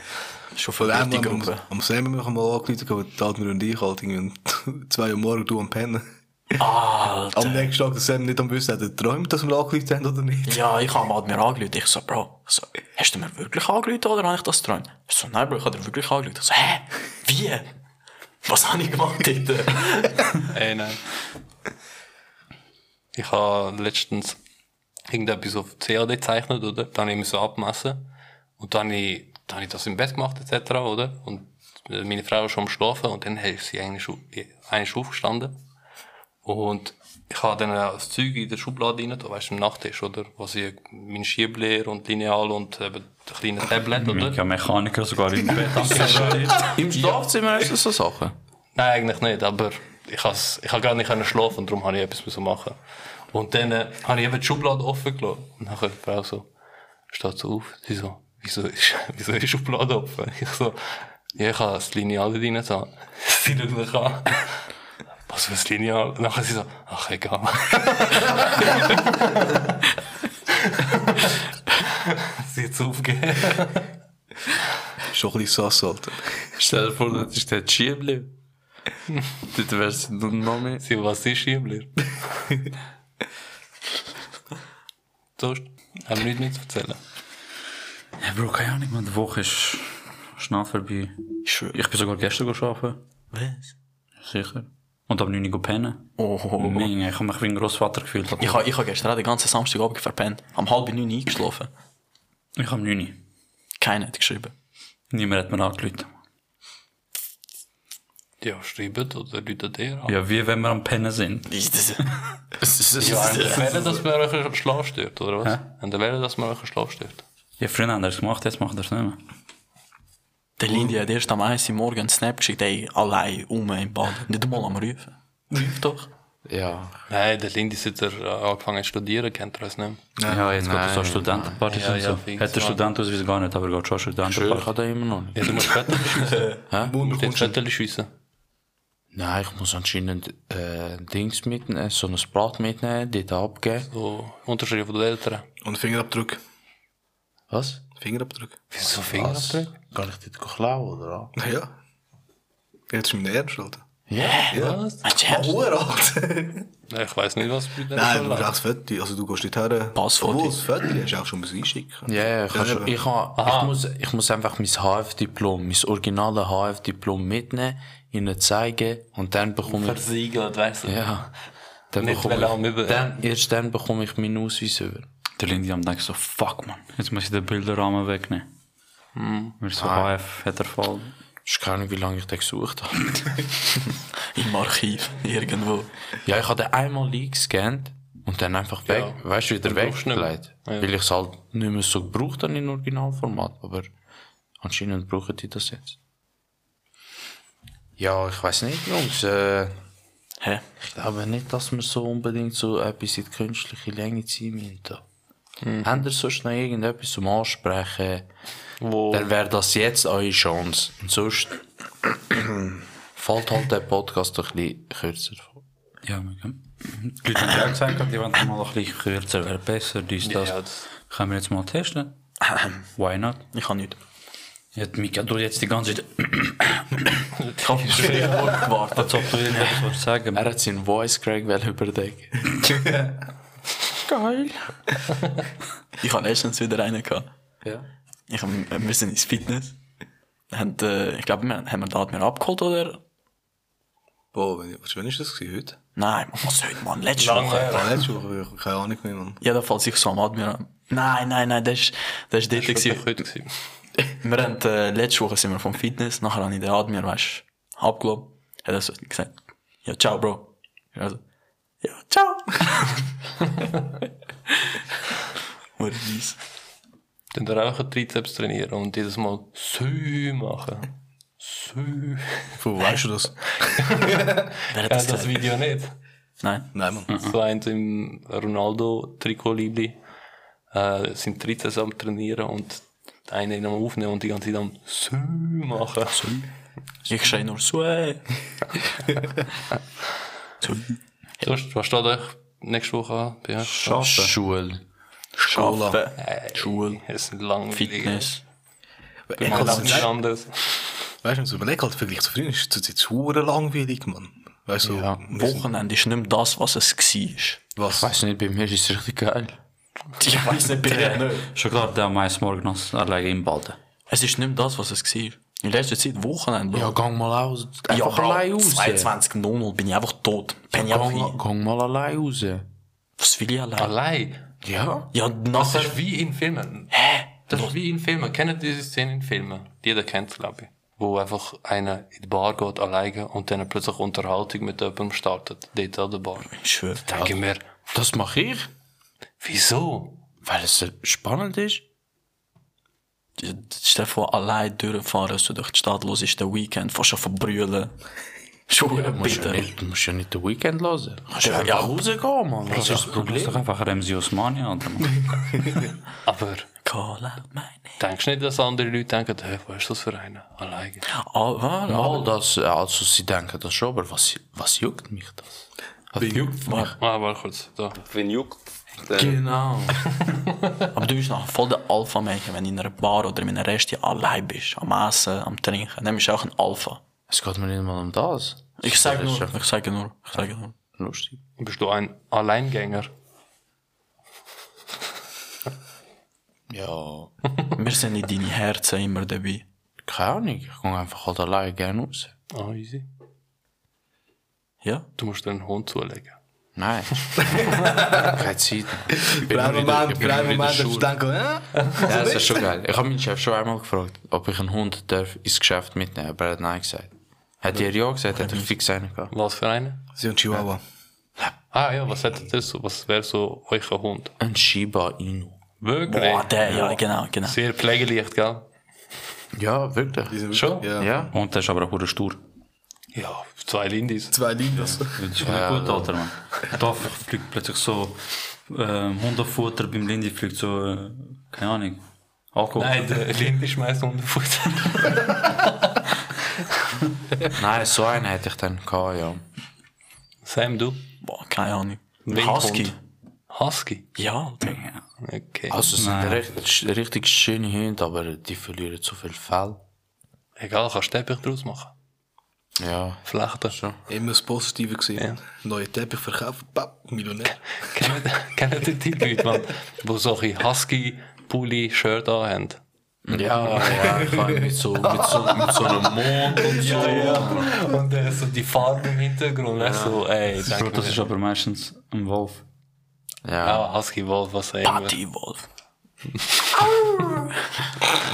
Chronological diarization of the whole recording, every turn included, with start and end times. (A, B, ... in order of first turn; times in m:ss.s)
0:00.5-0:01.6 A
0:00.8-0:06.0 B
0:06.6-0:07.7 A
0:07.3-0:10.6 B
0:10.4-0:17.7 A
0:18.4-0:20.4 A
0:20.5-0:21.0 C
0:23.1-0:24.4 C
0:25.1-0:28.0 C
0:28.6-0:35.6 C
0:36.4-0:44.3 C
0:43.7-0:46.8 D
0:45.7-0:46.4 C
0:45.9-0:48.3 E
0:48.8-0:52.8 C
0:53.3-0:56.5 C
0:57.1-1:04.6 C
1:05.3-1:09.7 C
1:10.6-1:11.3 C
1:12.0-1:13.9 C
1:15.1-1:16.5 B
1:16.6-1:18.3 E
1:19.5-1:20.8 E
1:20.8-1:21.9 C
1:25.4-1:27.0 C
1:28.2-1:31.1 D
1:31.4-1:31.8 A
1:31.7-1:33.0 D
1:33.3-1:33.7 A
1:34.2-1:38.6 D
1:36.2-1:36.9 A
1:38.4-1:41.7 A
1:42.6-1:43.2 D
1:43.8-1:44.5 A
1:45.1-1:46.1 D
1:48.4-1:50.1 C
1:50.0-1:51.5 D
1:51.5-1:52.0 A
1:52.6-1:54.0 E
1:53.0-1:57.2 C
1:53.0-1:53.6 A
1:57.6-1:59.2 D
2:00.6-2:06.1 A
2:06.4-2:07.0 E
2:07.1-2:10.0 C
2:10.2-2:10.5 B
2:10.3-2:11.6 E
2:10.3-2:14.7 D
2:11.7-2:12.8 C
2:14.3-2:15.6 E
2:15.3-2:18.1 C
2:16.7-2:17.0 E
2:16.8-2:17.6 B
2:19.1-2:23.9 E
2:23.9-2:25.4 C
2:25.6-2:26.4 B
2:27.5-2:27.8 E
2:28.0-2:28.6 B
2:28.7-2:29.7 C
2:28.9-2:31.3 E
2:31.4-2:31.7 B
2:32.9-2:33.8 B
2:34.1-2:34.5 E
2:34.2-2:35.6 A
2:34.5-2:36.7 B
2:34.5-2:35.1 C
2:36.9-2:38.5 C
2:37.9-2:42.9 B
2:40.0-2:40.6 A
2:42.1-2:50.0 E
2:43.4-2:43.8 C
2:49.7-2:51.1 C
2:50.8-2:51.3 E
2:51.9-2:55.1 E
2:52.0-2:53.1 C
2:55.4-2:58.5 D
2:59.2-2:59.6 C
2:59.6-3:01.1 D
2:59.8-3:00.1 E
3:01.4-3:03.4 E
3:04.3-3:05.9 A
3:06.2-3:13.9 E
3:08.9-3:10.9 C
3:14.6-3:16.0 E
3:18.0-3:19.8 E
3:20.8-3:25.0 E
3:25.6-3:25.9 C
3:25.8-3:28.3 E
3:28.8-3:29.3 C
3:29.1-3:31.6 E
3:32.1-3:35.6 E
3:36.0-3:42.2 D
3:40.2-3:40.8 C
3:42.4-3:42.8 A
3:43.0-3:43.4 D
3:43.5-3:44.0 A
3:44.7-3:47.2 D
3:47.6-3:49.3 A
3:47.9-3:48.3 C
3:48.9-3:50.4 D
3:50.3-3:52.6 E
3:52.8-3:53.1 B
3:54.0-3:54.8 E
3:56.0-3:57.3 A
3:58.3-3:59.8 A
4:00.5-4:03.0 A
4:04.3-4:05.8 B
4:06.0-4:07.9 A
4:07.2-4:08.0 C
4:07.6-4:09.4 B
4:09.4-4:13.1 A
4:12.5-4:13.6 C
4:14.1-4:21.2 A
4:21.8-4:23.0 A
4:25.8-4:26.4 A
4:27.3-4:30.9 C
4:31.4-4:32.6 C
4:32.6-4:34.0 B
4:33.8-4:35.9 C
4:34.7-4:35.5 A
4:36.4-4:36.7 A
4:36.7-4:37.1 B
4:37.1-4:37.3 D
4:37.1-4:40.0 C
4:40.7-4:46.3 C
4:47.1-4:48.2 A
4:50.6-4:51.0 A
4:51.4-4:54.0 C
4:53.7-4:54.8 E
4:53.9-4:54.3 D
4:55.4-4:57.0 A
4:55.4-4:56.0 B
4:56.2-4:58.4 C
4:57.7-4:58.4 A
4:59.3-5:00.1 B
4:59.4-5:00.8 C
4:59.4-5:00.1 A
5:01.2-5:05.6 B
5:04.8-5:05.2 C
5:05.3-5:07.6 A
5:07.8-5:08.1 B
5:07.9-5:09.6 E
5:10.2-5:11.5 A
5:11.5-5:13.8 D
5:14.1-5:17.0 A
5:16.7-5:19.1 E
5:17.9-5:21.4 A
5:20.7-5:22.6 E
5:23.2-5:23.9 A
5:23.8-5:24.4 C
5:24.6-5:25.1 E
5:25.1-5:26.0 A
5:25.5-5:26.9 C
5:26.9-5:27.7 A
5:27.5-5:36.5 C
5:36.5-5:37.0 A
5:37.1-5:37.6 C
5:37.1-5:37.4 E
5:37.9-5:38.7 E
5:39.4-5:40.2 C
5:40.4-5:41.8 E
5:43.4-5:47.9 A
5:48.7-5:49.7 A
5:48.8-5:53.6 E
5:51.4-5:52.0 A
5:52.6-5:53.0 C
5:52.7-5:55.3 D
5:56.2-5:56.7 C
5:56.8-5:58.0 A
5:58.0-6:01.0 C
6:01.1-6:02.3 A
6:01.9-6:06.9 E
6:06.2-6:06.5 B
6:06.5-6:06.9 A
6:07.0-6:08.0 C
6:08.1-6:10.0 E
6:09.2-6:09.6 A
6:10.9-6:17.0 A
6:17.3-6:19.5 E
6:18.8-6:20.7 A
6:21.0-6:21.4 E
6:21.6-6:23.1 C
6:26.7-6:27.3 E
6:27.7-6:29.6 A
6:30.0-6:32.3 E
6:32.5-6:33.1 C
6:35.2-6:36.4 C
6:36.8-6:37.3 E
6:37.6-6:38.2 B
6:38.1-6:41.1 E
6:39.2-6:42.6 B
6:42.0-6:49.3 E
6:48.3-6:48.7 A
6:49.3-6:50.0 C
6:50.2-6:50.8 B
6:51.7-6:54.3 C
6:54.4-6:55.6 E
6:55.8-6:58.6 C
6:56.0-6:57.6 A
6:59.5-7:01.3 E
7:00.3-7:01.3 B
7:00.5-7:00.9 C
7:01.3-7:02.4 D
7:03.1-7:04.4 C
7:04.3-7:05.2 B
7:04.9-7:13.1 D
7:05.4-7:06.2 E
7:12.8-7:16.0 C
7:17.5-7:19.4 E
7:20.4-7:21.0 C
7:21.2-7:23.0 A
7:22.2-7:23.0 C
7:23.5-7:24.1 C
7:24.2-7:24.8 A
7:24.6-7:25.0 D
7:25.2-7:25.8 C
7:25.7-7:29.8 E
7:25.9-7:26.4 D
7:30.6-7:31.9 C
7:32.8-7:34.0 E
7:33.2-7:33.7 C
7:34.1-7:37.6 B
7:37.9-7:42.8 C
7:43.3-7:47.4 E
7:43.6-7:44.0 C
7:43.8-7:47.6 B
7:46.7-7:51.2 C
7:46.8-7:47.5 A
7:49.8-7:50.1 E
7:50.6-7:52.6 D
7:53.4-7:53.8 E
7:53.6-7:55.2 C
7:54.8-7:55.6 A
7:56.8-7:57.6 A